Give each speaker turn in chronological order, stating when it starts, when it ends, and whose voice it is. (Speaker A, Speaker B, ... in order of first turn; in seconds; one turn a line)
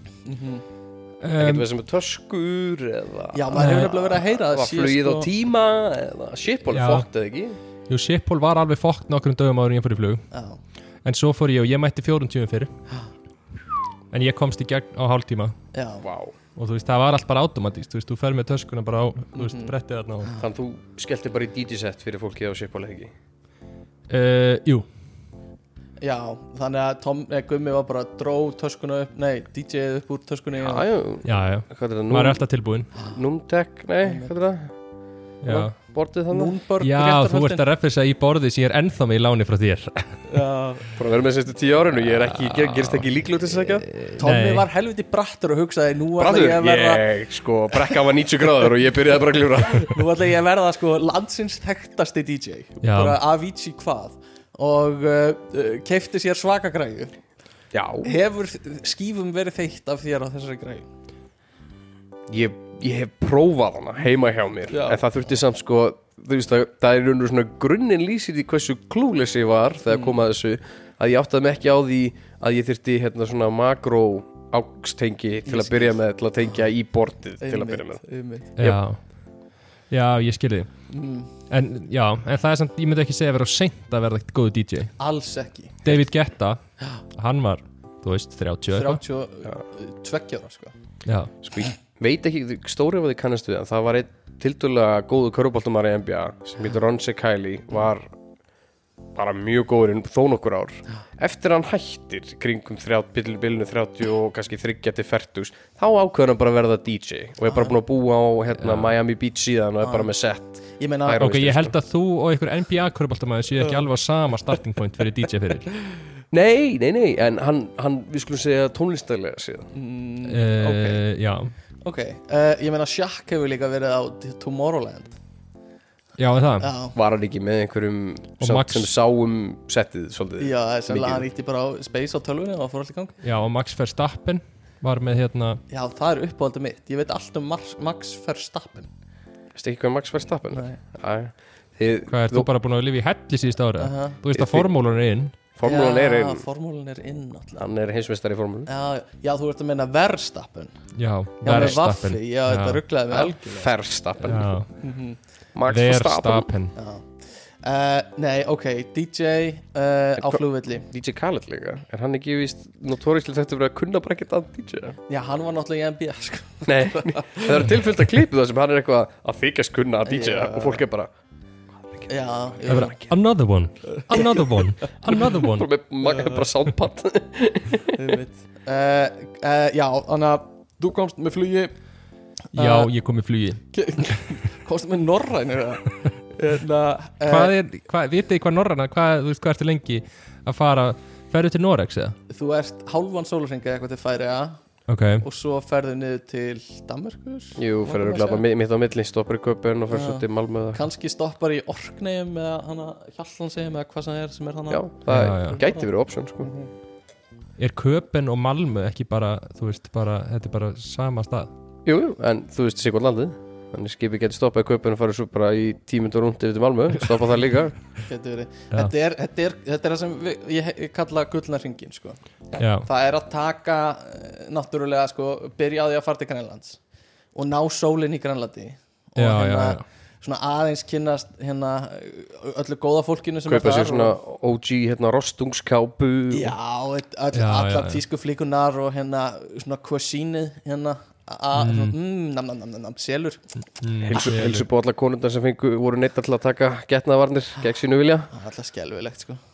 Speaker A: 0.2-0.6
Speaker B: 1.2-1.7
Speaker C: 1.4-7.6
Speaker A: 3.3-5.3
Speaker B: 3.5-3.9
Speaker B: 6.7-7.1
Speaker B: 7.9-10.2
Speaker A: 10.3-10.6
Speaker B: 11.0-12.7
Speaker B: 14.1-15.6
Speaker A: 15.7-16.0
Speaker C: 16.0-16.3
Speaker B: 16.6-20.3
Speaker A: 19.4-19.7
Speaker C: 20.4-23.1
Speaker B: 24.1-24.9
Speaker A: 26.0-30.9
Speaker C: 30.5-32.4
Speaker B: 31.2-32.9
Speaker C: 33.0-34.7
Speaker A: 34.0-34.3
Speaker B: 35.4-35.7
Speaker C: 35.8-36.5
Speaker A: 36.3-37.6
Speaker B: 36.8-40.2
Speaker A: 40.3-40.9
Speaker C: 41.0-43.9
Speaker B: 42.3-43.0
Speaker B: 43.8-44.7
Speaker A: 44.2-47.0
Speaker C: 46.2-49.9
Speaker A: 49.7-57.1
Speaker B: 52.8-53.2
Speaker C: 57.7-58.2
Speaker A: 58.0-60.9
Speaker C: 62.3-78.0
Speaker A: 64.7-65.0
Speaker A: 75.4-76.0
Speaker A: 77.4-78.7
Speaker B: 78.6-79.0
Speaker B: 79.9-80.7
Speaker A: 80.9-81.3
Speaker B: 81.5-84.9
Speaker A: 85.0-85.8
Speaker B: 85.8-86.6
Speaker B: 87.1-89.0
Speaker A: 88.7-90.7
Speaker B: 91.0-91.3
Speaker C: 91.4-98.1
Speaker C: 99.2-111.7
Speaker B: 108.6-108.9
Speaker A: 109.8-110.1
Speaker A: 110.6-111.3
Speaker B: 111.2-115.7
Speaker C: 116.3-119.7
Speaker A: 119.7-121.0
Speaker B: 120.2-121.5
Speaker A: 121.8-125.2
Speaker B: 126.2-126.7
Speaker A: 126.6-126.9
Speaker C: 126.9-131.2
Speaker B: 128.4-128.9
Speaker A: 130.4-133.2
Speaker B: 133.2-135.6
Speaker A: 135.7-138.9
Speaker C: 139.5-142.5
Speaker A: 140.5-140.8
Speaker B: 142.1-145.3
Speaker A: 143.8-144.2
Speaker C: 144.3-144.7
Speaker C: 145.6-146.4
Speaker A: 145.6-147.7
Speaker C: 147.6-148.7
Speaker A: 148.7-150.7
Speaker B: 151.0-152.8
Speaker A: 151.4-153.7
Speaker C: 153.1-154.6
Speaker B: 154.3-154.7
Speaker A: 154.8-155.2
Speaker C: 155.5-156.5
Speaker B: 155.7-156.7
Speaker A: 156.8-157.1
Speaker A: 157.6-160.8
Speaker C: 160.2-165.0
Speaker A: 165.1-167.6
Speaker C: 166.7-171.1
Speaker A: 170.1-170.8
Speaker C: 171.9-173.0
Speaker A: 172.1-173.0
Speaker B: 172.7-175.7
Speaker A: 174.0-174.7
Speaker C: 175.4-177.9
Speaker A: 176.1-176.3
Speaker A: 177.9-181.7
Speaker A: 182.5-182.9
Speaker B: 182.5-184.2
Speaker A: 183.7-187.5
Speaker B: 187.3-192.2
Speaker A: 192.3-194.6
Speaker B: 194.9-195.2
Speaker A: 195.2-198.4
Speaker C: 197.6-200.8
Speaker A: 199.9-205.8
Speaker C: 204.7-206.5
Speaker B: 205.1-205.6
Speaker B: 207.6-211.5
Speaker C: 211.8-217.7
Speaker A: 218.1-222.2
Speaker B: 222.6-222.9
Speaker A: 222.8-226.8
Speaker A: 227.3-234.2
Speaker B: 229.2-229.8
Speaker C: 233.4-236.5
Speaker A: 236.3-243.4
Speaker B: 237.3-238.0
Speaker B: 241.5-242.0
Speaker B: 243.8-244.7
Speaker C: 244.0-248.3
Speaker A: 248.3-249.4